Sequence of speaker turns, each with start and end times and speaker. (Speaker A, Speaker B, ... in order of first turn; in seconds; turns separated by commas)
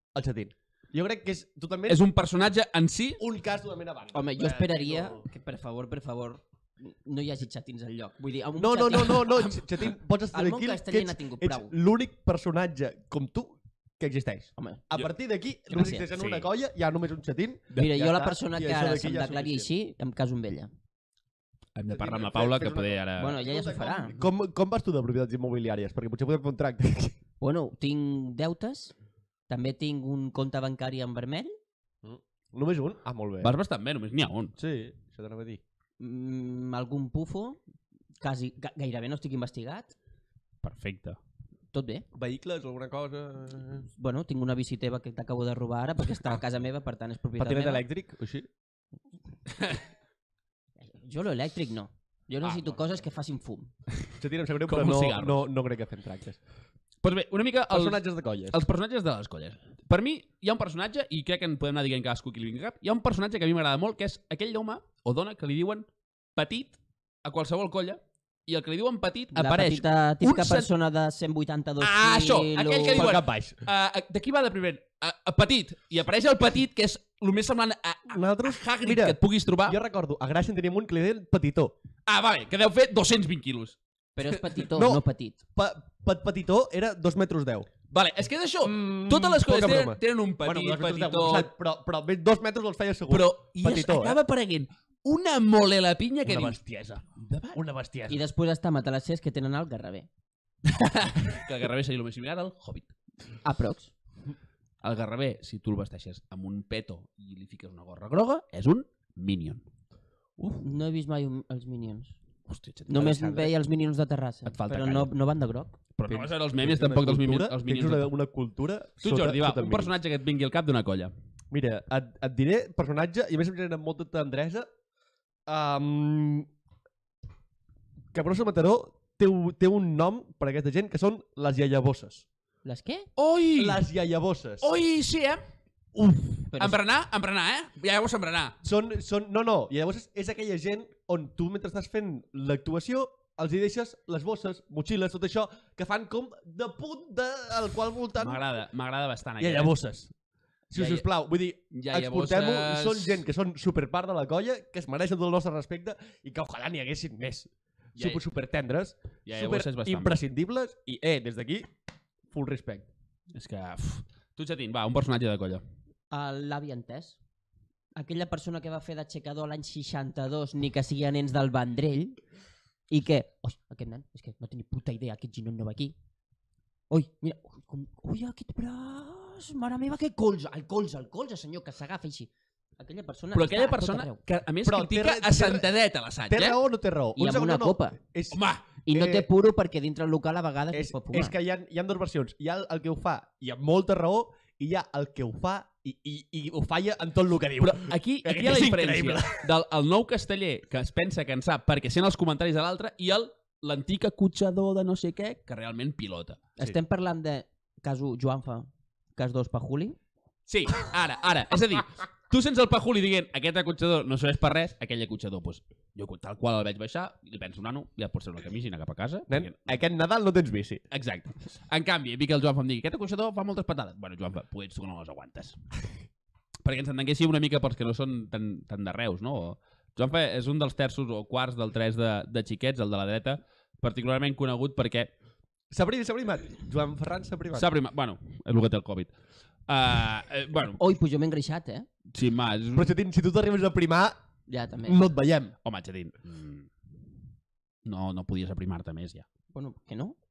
Speaker A: 0.1-2.0, Speaker B: 1.9-3.2, Speaker A: 3.2-5.2, Speaker C: 4.1-9.4, Speaker A: 8.6-19.7, Speaker C: 10.3-11.7, Speaker C: 14.6-14.8, Speaker C: 15.7-16.1, Speaker B: 16.1-16.5, Speaker C: 17.7-20.7, Speaker B: 21.7-23.4, Speaker A: 21.9-27.1, Speaker C: 23.2-24.1, Speaker C: 27.4-28.9, Speaker C: 29.5-31.6, Speaker A: 32.0-33.5, Speaker B: 33.4-34.5, Speaker A: 34.6-35.6, Speaker C: 36.0-37.6, Speaker C: 38.2-39.9, Speaker B: 40.6-41.2, Speaker C: 41.7-42.0, Speaker A: 42.1-43.9, Speaker C: 43.9-47.8, Speaker A: 47.4-48.5, Speaker C: 50.8-53.7, Speaker A: 54.2-56.4, Speaker B: 54.7-55.4, Speaker B: 57.0-70.7, Speaker A: 57.7-58.6, Speaker C: 69.3-73.1, Speaker B: 71.8-79.8, Speaker A: 72.9-73.6, Speaker A: 78.1-81.7, Speaker B: 82.1-84.4, Speaker C: 84.2-85.4, Speaker A: 84.7-85.0, Speaker A: 85.5-87.7, Speaker B: 87.9-91.5, Speaker A: 88.6-94.2, Speaker B: 93.1-97.6, Speaker A: 96.2-97.0, Speaker A: 97.5-98.2, Speaker C: 98.1-100.1, Speaker B: 100.6-102.9, Speaker C: 103.4-103.9, Speaker B: 104.8-109.6, Speaker C: 110.6-112.2, Speaker B: 112.5-113.5, Speaker C: 112.9-115.7, Speaker B: 114.5-115.1, Speaker B: 116.0-118.1, Speaker A: 116.1-119.9, Speaker B: 119.0-121.1, Speaker A: 121.5-124.7, Speaker A: 125.5-126.5, Speaker A: 128.1-132.2, Speaker C: 132.6-133.1, Speaker B: 133.2-133.8, Speaker A: 133.6-134.7, Speaker B: 134.6-135.4, Speaker A: 135.9-136.5, Speaker C: 136.5-136.8, Speaker B: 136.6-138.6, Speaker A: 138.6-148.4, Speaker B: 148.2-149.7, Speaker A: 149.4-150.1, Speaker A: 150.7-161.7, Speaker B: 150.7-151.1, Speaker B: 151.7-153.2, Speaker B: 158.0-158.2, Speaker B: 159.2-160.2, Speaker A: 162.3-162.9, Speaker B: 163.3-165.6, Speaker C: 166.1-167.2, Speaker C: 167.9-172.2, Speaker C: 172.9-175.9, Speaker C: 176.9-184.2, Speaker B: 183.3-186.6, Speaker A: 184.7-185.7, Speaker A: 186.3-189.3, Speaker C: 187.2-188.0, Speaker B: 188.3-188.7, Speaker C: 188.8-191.3, Speaker A: 190.7-199.4, Speaker B: 197.6-206.4, Speaker C: 206.6-210.0, Speaker B: 210.5-219.6, Speaker A: 219.3-220.8, Speaker B: 220.9-225.6, Speaker B: 226.6-235.1, Speaker A: 235.7-237.7, Speaker B: 237.5-239.1, Speaker B: 239.7-240.8, Speaker C: 240.8-241.9, Speaker B: 242.1-242.9, Speaker A: 242.7-244.2, Speaker C: 244.5-245.1, Speaker A: 244.8-245.5, Speaker B: 245.6-246.7, Speaker B: 247.8-249.2, Speaker C: 249.5-250.2